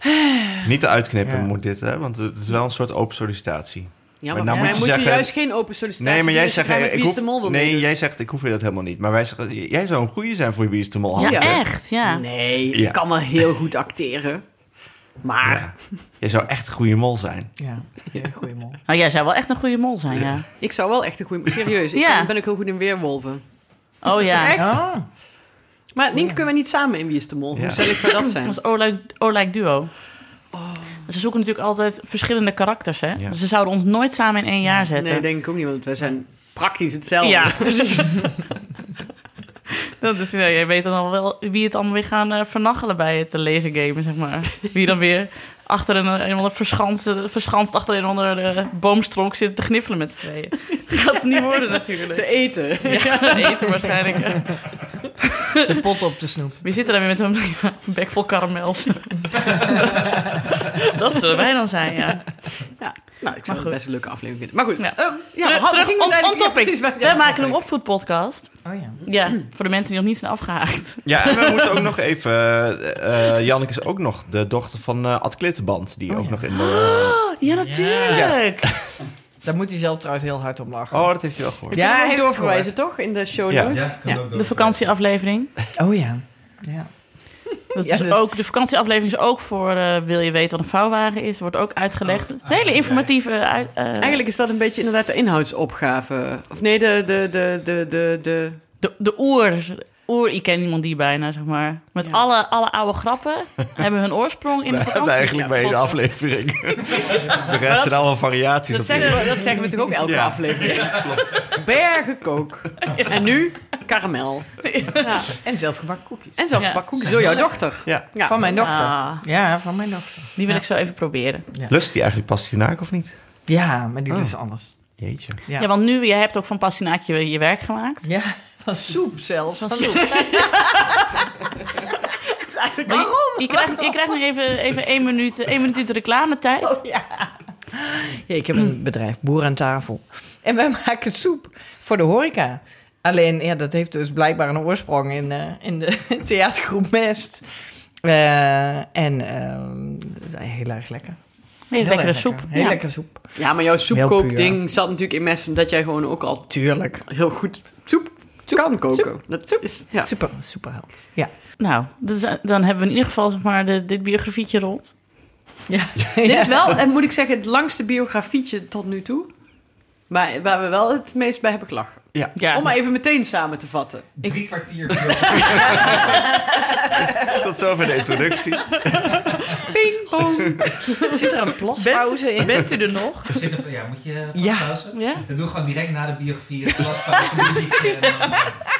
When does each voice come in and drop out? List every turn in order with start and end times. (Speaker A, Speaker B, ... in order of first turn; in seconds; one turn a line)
Speaker A: 0.6-11.8
Speaker B: 1.2-1.5
Speaker C: 4.2-7.9
Speaker B: 4.5-5.0
Speaker D: 11.2-12.2
Speaker C: 11.2-15.9
Speaker A: 12.7-13.0
Speaker A: 15.4-17.6
Speaker B: 17.6-18.8
Speaker D: 18.9-20.5
Speaker C: 20.6-25.0
Speaker D: 21.9-22.3
Speaker D: 24.0-24.6
Speaker B: 24.6-25.1
Speaker C: 25.9-28.6
Speaker B: 26.1-26.4
Speaker A: 27.5-27.9
Speaker D: 28.4-30.5
Speaker C: 30.5-31.0
Speaker D: 31.1-35.2
Speaker C: 35.0-38.1
Speaker D: 37.2-38.3
Speaker D: 40.0-54.9
Speaker C: 52.1-54.1
Speaker B: 55.7-56.6
Speaker D: 56.6-64.0
Speaker C: 62.8-67.6
Speaker D: 64.8-71.8
Speaker B: 68.6-69.0
Speaker A: 71.0-77.3
Speaker B: 76.1-76.5
Speaker D: 76.5-78.7
Speaker B: 77.6-78.3
Speaker A: 78.1-78.9
Speaker B: 79.4-82.7
Speaker A: 80.9-81.8
Speaker C: 81.7-84.2
Speaker A: 83.5-83.9
Speaker E: 83.7-85.0
Speaker D: 84.3-85.5
Speaker B: 85.8-88.2
Speaker D: 87.7-94.2
Speaker E: 92.0-93.1
Speaker C: 94.0-98.6
Speaker D: 98.8-106.0
Speaker A: 104.7-111.5
Speaker C: 107.7-115.4
Speaker D: 112.9-113.3
Speaker D: 114.6-115.3
Speaker B: 115.4-116.4
Speaker C: 116.4-118.4
Speaker D: 116.5-117.4
Speaker B: 118.2-121.7
Speaker D: 118.6-119.2
Speaker D: 120.3-121.4
Speaker A: 121.7-123.5
Speaker B: 123.5-125.7
Speaker A: 124.1-124.3
Speaker A: 124.9-125.4
Speaker D: 125.6-128.1
Speaker B: 128.0-130.4
Speaker D: 129.6-130.7
Speaker C: 132.4-133.1
Speaker B: 132.8-133.9
Speaker D: 132.9-136.8
Speaker B: 136.6-154.6
Speaker D: 151.7-152.8
Speaker C: 153.3-160.1
Speaker B: 156.5-157.0
Speaker B: 158.5-161.3
Speaker D: 161.6-164.9
Speaker B: 165.7-166.5
Speaker C: 166.2-174.4
Speaker D: 172.3-172.6
Speaker E: 174.2-176.2
Speaker A: 177.1-179.2
Speaker C: 179.6-181.2
Speaker A: 180.4-180.8
Speaker B: 181.1-182.7
Speaker C: 181.8-182.2
Speaker D: 182.4-183.3
Speaker E: 183.3-188.5
Speaker B: 184.3-184.8
Speaker D: 184.9-185.2
Speaker B: 186.8-187.6